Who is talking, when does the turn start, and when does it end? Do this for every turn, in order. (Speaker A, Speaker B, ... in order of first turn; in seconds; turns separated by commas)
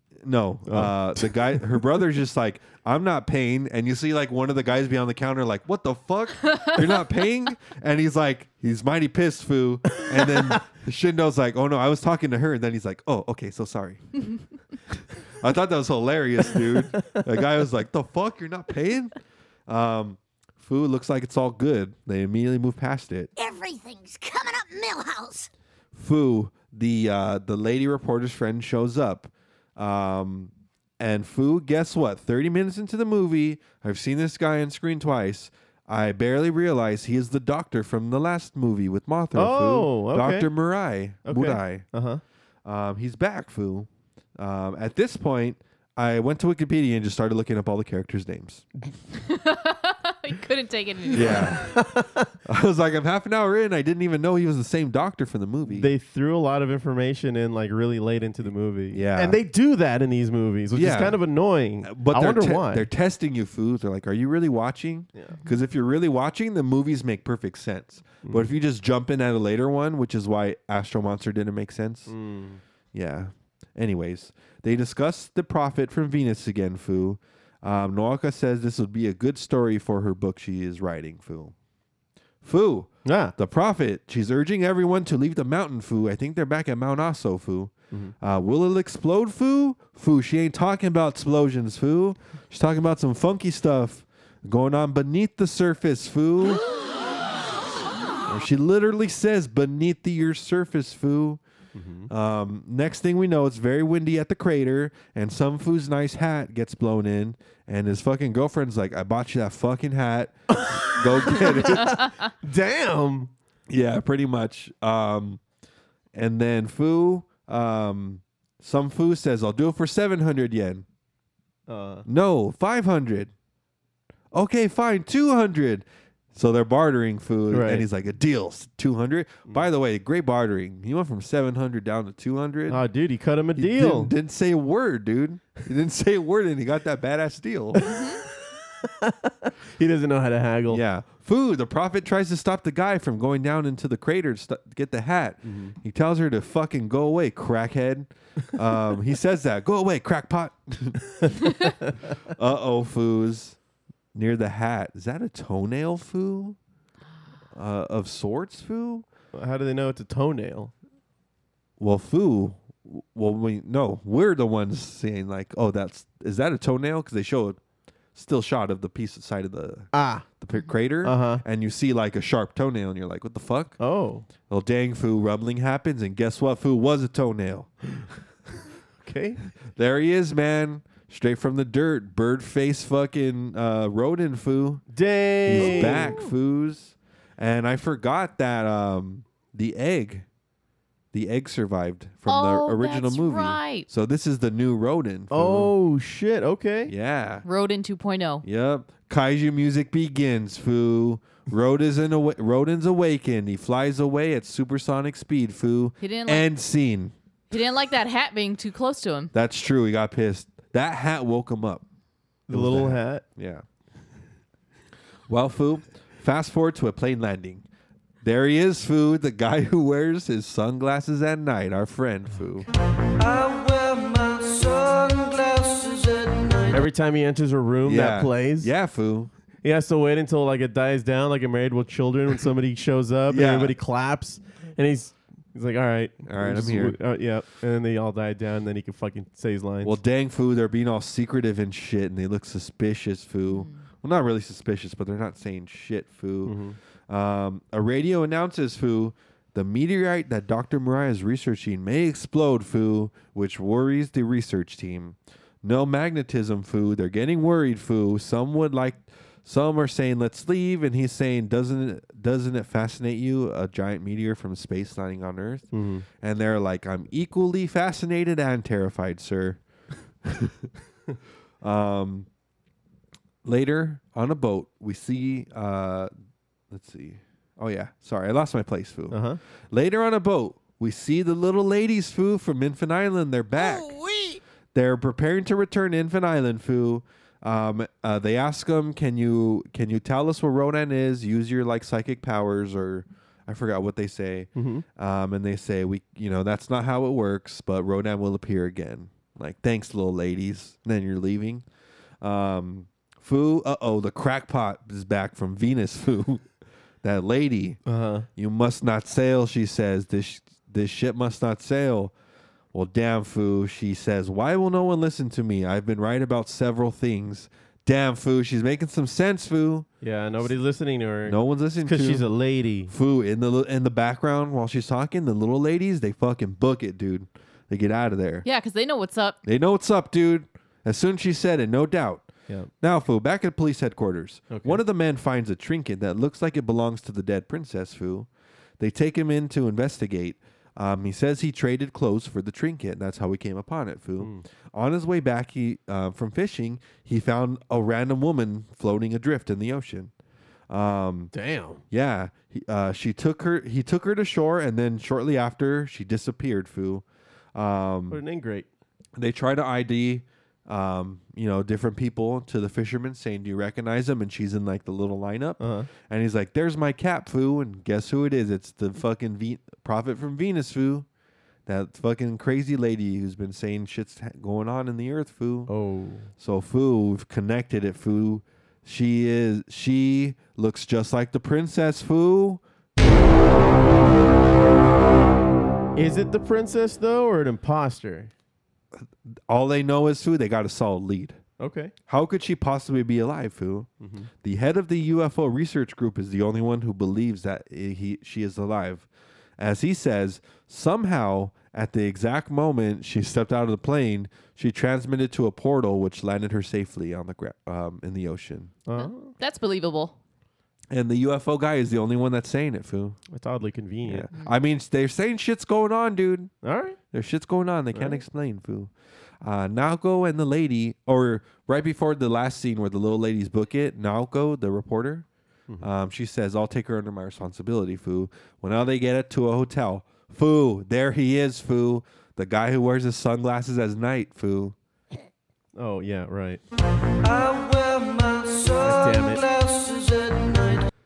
Speaker A: 0.2-14.3, Speaker B: 0.7-1.8, Speaker B: 10.0-10.6, Speaker A: 15.4-19.1, Speaker A: 19.7-23.3, Speaker C: 23.4-25.5, Speaker A: 25.9-41.9, Speaker B: 39.4-40.5, Speaker B: 41.2-42.2, Speaker A: 42.6-48.6, Speaker D: 49.1-51.6, Speaker A: 51.1-51.7, Speaker B: 51.2-52.3, Speaker A: 52.5-55.9, Speaker B: 55.7-62.9, Speaker A: 58.9-59.4, Speaker A: 60.7-61.2, Speaker A: 61.8-72.1, Speaker B: 68.2-68.5, Speaker B: 72.1-72.6, Speaker A: 72.9-81.5, Speaker A: 82.4-96.6, Speaker B: 83.0-83.3, Speaker A: 98.3-101.4, Speaker B: 101.8-102.1, Speaker A: 102.1-112.1, Speaker B: 110.5-113.3, Speaker A: 113.7-115.4, Speaker A: 116.1-120.9, Speaker B: 121.7-122.1, Speaker A: 122.1-123.3, Speaker A: 124.3-132.8, Speaker B: 127.5-127.9, Speaker B: 132.7-134.1, Speaker A: 133.6-137.9, Speaker D: 137.8-138.2, Speaker B: 137.9-140.8, Speaker A: 140.7-153.6, Speaker B: 145.4-145.8, Speaker A: 154.1-156.6, Speaker A: 157.5-159.1, Speaker B: 159.3-160.7, Speaker A: 161.8-167.6, Speaker A: 168.2-173.8, Speaker B: 169.9-170.3, Speaker B: 171.0-171.4, Speaker B: 173.8-174.3, Speaker A: 174.4-177.7, Speaker B: 179.0-179.4, Speaker A: 179.7-184.8, Speaker B: 184.9-186.2, Speaker A: 185.4-190.3, Speaker D: 185.6-186.3, Speaker A: 191.1-195.7, Speaker D: 192.3-193.9, Speaker B: 195.3-196.9, Speaker A: 196.9-197.4, Speaker D: 197.4-198.4, Speaker A: 198.4-207.1, Speaker D: 206.0-206.5, Speaker D: 207.5-209.3, Speaker A: 209.3-211.9, Speaker B: 212.5-213.2, Speaker A: 212.5-213.6, Speaker A: 215.3-217.7, Speaker A: 218.2-222.7, Speaker E: 223.2-226.9, Speaker B: 226.7-228.7, Speaker A: 227.8-229.3, Speaker B: 229.6-240.0, Speaker A: 233.3-233.8, Speaker A: 236.2-237.0, Speaker A: 239.8-246.6, Speaker B: 246.4-246.8, Speaker A: 247.1-269.6, Speaker B: 265.7-266.1, Speaker A: 270.2-270.7, Speaker A: 271.6-272.3, Speaker A: 273.4-276.1, Speaker A: 276.7-284.0, Speaker B: 279.1-279.4, Speaker A: 284.7-301.6, Speaker B: 294.6-294.9, Speaker A: 302.2-306.5, Speaker A: 307.0-307.8, Speaker B: 307.9-308.3, Speaker A: 308.4-312.1, Speaker A: 312.7-319.9, Speaker B: 320.0-322.9, Speaker A: 321.2-322.3, Speaker A: 322.9-328.5, Speaker D: 328.4-329.4, Speaker A: 329.4-332.3, Speaker A: 332.8-338.3, Speaker B: 334.5-334.8, Speaker A: 338.8-350.1, Speaker A: 350.7-351.3, Speaker B: 351.3-351.8, Speaker A: 351.9-357.0, Speaker A: 357.6-358.2, Speaker B: 358.1-358.7, Speaker A: 359.2-371.1, Speaker B: 365.6-365.9, Speaker A: 371.7-375.7, Speaker B: 375.7-376.3, Speaker A: 376.4-382.6, Speaker B: 386.0-388.3, Speaker A: 389.0-391.4, Speaker B: 391.6-391.9, Speaker A: 392.1-393.9, Speaker B: 394.0-394.3, Speaker A: 394.4-408.7, Speaker B: 408.9-409.3, Speaker D: 408.9-410.1, Speaker A: 410.9-413.2, Speaker B: 413.3-414.3, Speaker A: 414.0-416.5, Speaker B: 416.6-417.0, Speaker A: 417.1-418.9, Speaker B: 417.9-418.2, Speaker A: 419.4-425.3, Speaker A: 425.8-434.8, Speaker B: 435.8-436.6, Speaker E: 437.2-440.9, Speaker B: 438.8-439.4